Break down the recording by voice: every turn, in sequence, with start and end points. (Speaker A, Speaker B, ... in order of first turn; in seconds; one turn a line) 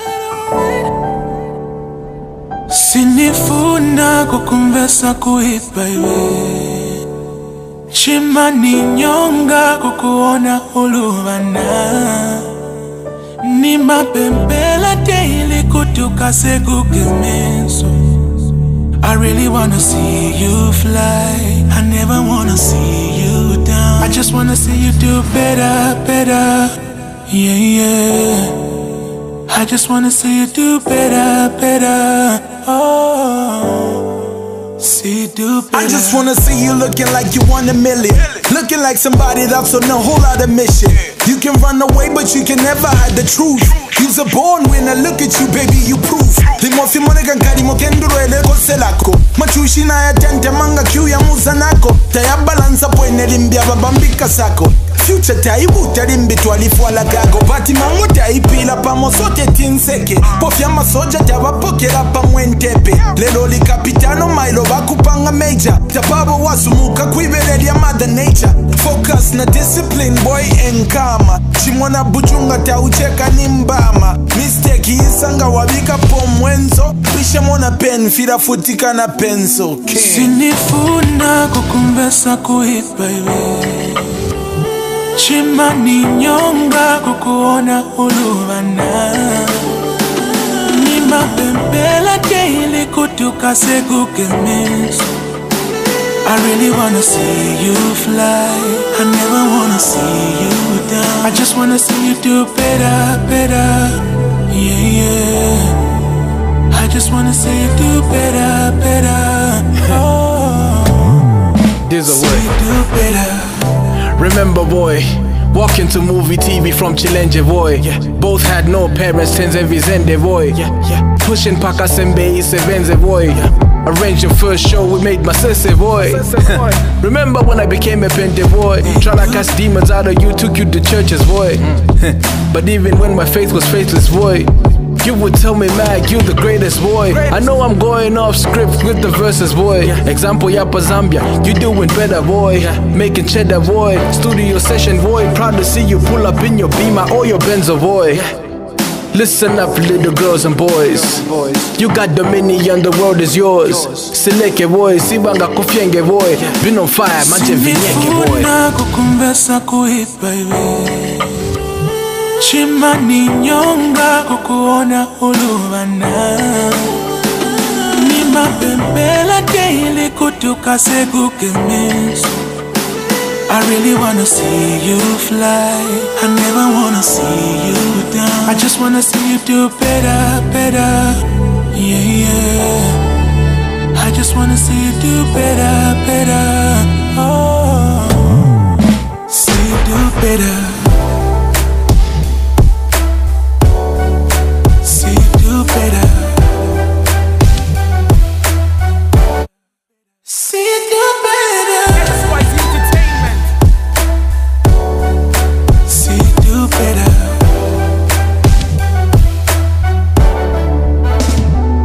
Speaker A: 2.7-7.1
Speaker A: 7.9-12.8
Speaker A: 13.4-28.9
Speaker A: 29.4-36.3
Speaker B: 35.7-80.4
Speaker A: 79.9-84.2
Speaker A: 85.1-95.2
Speaker A: 96.2-106.1
Speaker A: 106.7-111.3
Speaker C: 111.6-112.5
Speaker A: 112.1-113.8
Speaker C: 114.1-148.5
Speaker C: 149.1-158.5
Speaker A: 157.2-161.5
Speaker A: 162.3-172.5
Speaker A: 173.5-183.2
Speaker A: 183.9-188.5
Speaker A: 189.2-191.1
Speaker A: 194.8-196.6
Speaker A: 200.2-203.4
Speaker C: 202.7-203.2
Speaker A: 205.8-207.6